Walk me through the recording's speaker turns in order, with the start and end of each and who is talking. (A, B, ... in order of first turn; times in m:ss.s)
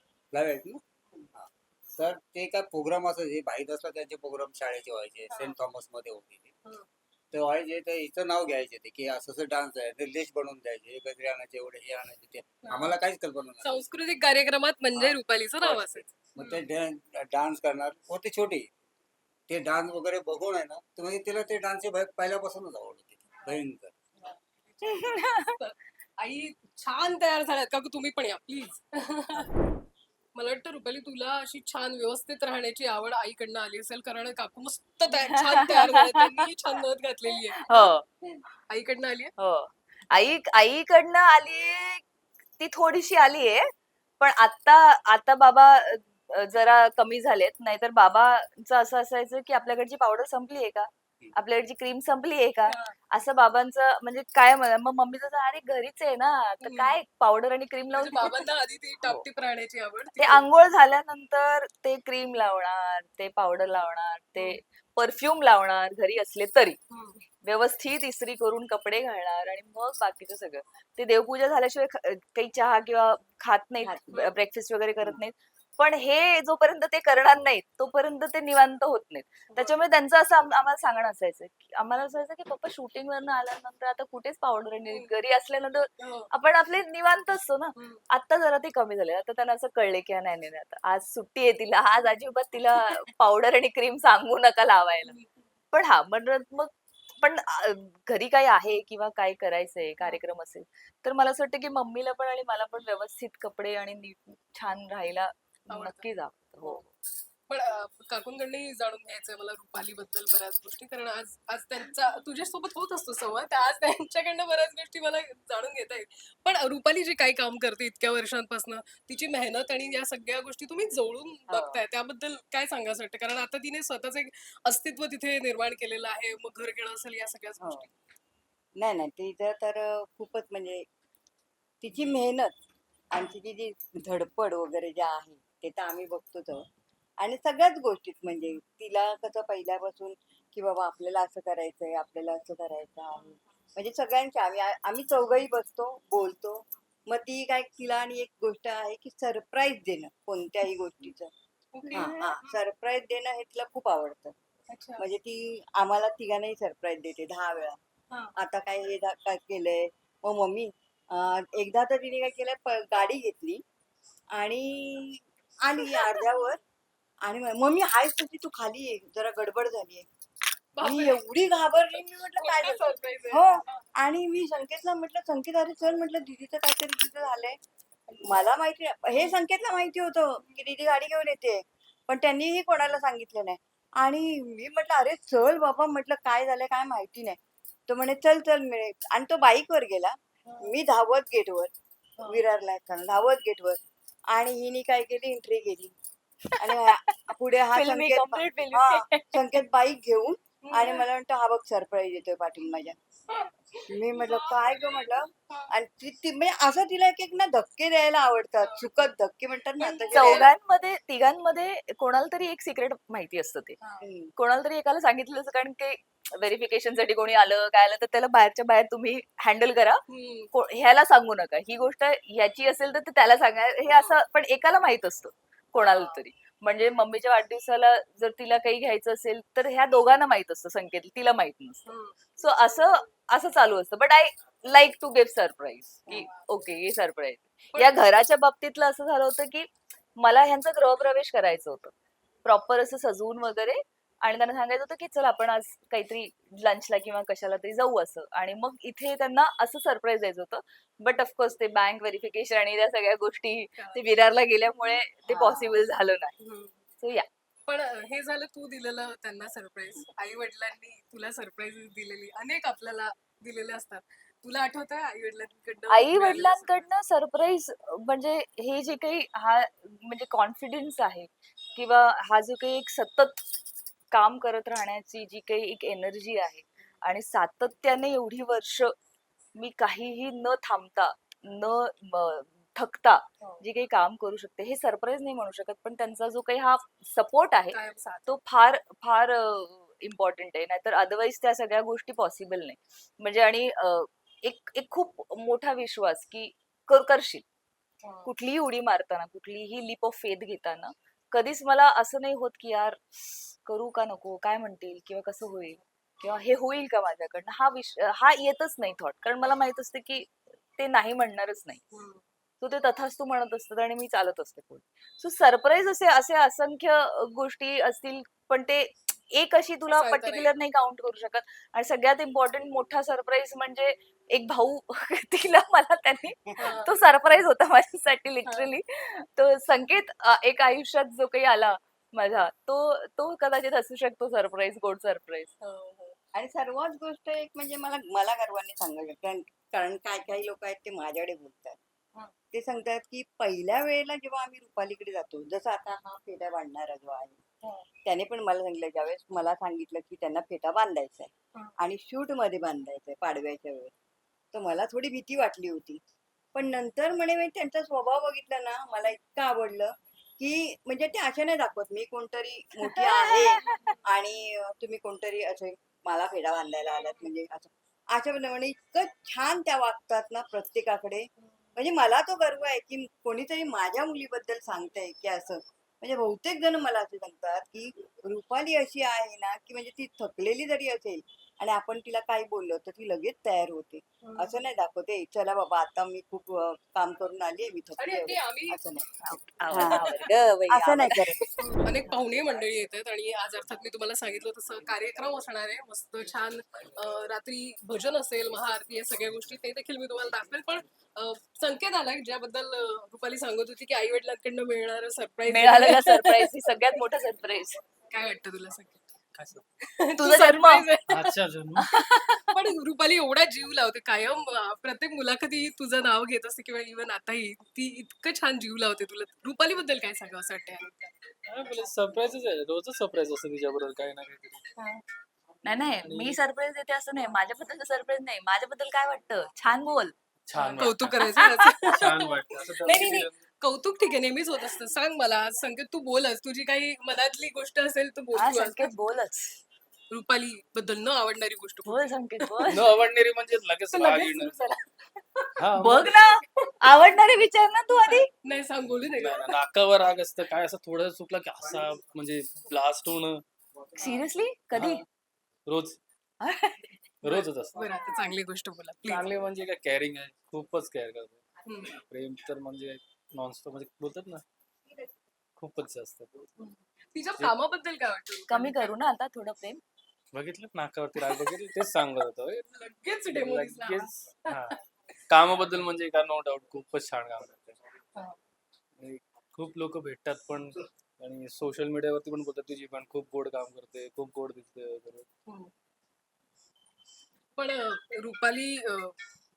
0:00.3-0:00.8 A
0:01.3-0:06.5 A
0:05.3-0:05.6 B
0:07.3-0:13.8 A
0:12.6-0:13.0 B
0:13.6-0:16.6 B
0:15.0-0:18.7 A
0:19.5-0:23.9 A
0:24.2-0:29.5 B
0:24.9-0:25.5 C
0:30.3-0:37.9 B
0:35.3-0:36.3 C
0:37.6-0:38.0 C
0:38.7-0:39.3 B
0:39.4-0:42.0 C
0:42.6-0:58.4 C
0:52.7-0:52.9 B
0:56.6-0:57.0 B
0:57.9-1:00.5 B
1:00.2-1:06.8 C
1:06.9-1:07.2 B
1:07.4-1:35.1 C
1:13.8-1:14.1 D
1:19.5-1:19.8 B
1:24.9-1:25.2 B
1:26.0-1:26.3 B
1:27.8-1:28.0 B
1:35.0-1:35.5 B
1:35.7-1:46.9 C
1:45.7-1:46.1 B
1:47.5-2:07.9 B
2:01.5-2:01.8 D
2:07.6-2:07.9 D
2:08.8-2:10.8 D
2:11.8-2:12.5 D
2:13.1-2:16.6 D
2:17.2-2:31.3 D
2:31.7-2:32.6 B
2:31.9-2:34.3 D
2:34.7-2:35.0 B
2:35.0-2:37.8 D
2:38.4-2:43.6 D
2:44.3-2:46.6 D
2:47.2-2:50.0 D
2:50.7-2:51.2 B
2:50.8-2:57.6 D
2:51.9-2:53.8 B
2:58.1-2:58.5 B
2:58.2-3:11.7 D
3:10.4-3:10.7 B
3:12.3-3:13.8 D
3:14.3-3:15.9 D
3:16.6-3:23.0 D
3:17.7-3:19.4 C
3:20.6-3:21.0 B
3:23.9-3:30.5 D
3:24.1-3:24.9 B
3:28.6-3:29.1 B
3:29.8-3:30.5 B
3:30.1-3:33.8 C
3:34.0-3:34.3 D
3:34.4-3:40.0 C
3:40.1-3:40.5 B
3:40.5-4:01.9 C
3:43.8-3:44.2 B
3:45.8-3:46.2 B
3:51.8-3:52.2 B
3:56.1-3:56.4 B
3:57.7-3:58.1 B
4:02.4-4:16.3 C
4:13.8-4:14.0 B
4:15.2-4:15.8 D
4:16.4-4:16.8 B
4:17.0-4:17.2 C
4:17.6-4:26.9 B
4:25.9-4:33.4 C
4:34.1-4:38.9 C
4:39.6-4:57.4 C
4:47.7-4:48.3 B
4:58.0-4:58.3 B
4:58.2-5:03.0 C
5:03.6-5:11.8 C
5:11.9-5:12.2 B
5:12.6-5:35.5 C
5:19.9-5:20.5 B
5:26.6-5:26.9 B
5:28.4-5:28.7 B
5:35.6-5:36.2 B
5:36.3-5:41.8 D
5:42.5-5:47.4 D
5:48.0-5:53.9 D
5:54.5-5:56.0 D
5:56.5-6:29.1 D
6:02.9-6:03.8 C
6:03.7-6:04.0 B
6:06.9-6:07.3 B
6:24.2-6:24.6 B
6:28.0-6:28.8 B
6:29.2-6:31.4 C
6:29.7-6:30.0 D
6:30.7-6:31.4 D
6:31.6-6:46.5 B
6:45.5-6:47.8 C
6:48.1-6:49.1 B
6:49.3-6:49.6 E
6:50.0-6:51.3 B
6:50.2-6:50.8 C
6:51.1-6:51.9 E
6:51.8-6:52.5 C
6:52.5-7:01.1 B
7:01.4-7:04.6 E
7:05.6-7:10.1 C
7:05.8-7:06.4 E
7:10.4-7:11.4 E
7:10.5-7:18.9 B
7:11.5-7:11.9 C
7:11.9-7:13.4 E
7:18.3-7:19.6 C
7:20.1-7:22.9 B
7:21.8-7:22.9 C
7:22.6-7:24.5 E
7:23.9-7:26.2 B
7:25.6-7:26.1 E
7:25.8-7:28.3 C
7:28.0-7:29.6 B
7:29.0-7:33.4 E
7:34.0-7:35.0 C
7:34.7-7:35.0 E
7:35.7-7:36.0 E
7:36.4-7:37.0 C
7:37.2-7:37.8 E
7:37.2-7:39.3 B
7:39.0-7:41.4 E
7:41.6-7:42.0 B
7:42.0-7:44.4 E
7:45.6-7:46.5 E
7:46.6-7:48.9 B
7:48.5-7:49.8 C
7:50.3-7:52.7 E
7:51.2-7:51.6 B
7:52.7-7:54.6 B
7:53.3-7:54.8 E
7:55.3-7:57.7 E
7:59.0-8:05.2 E
8:05.4-8:05.7 B
8:07.5-8:09.2 B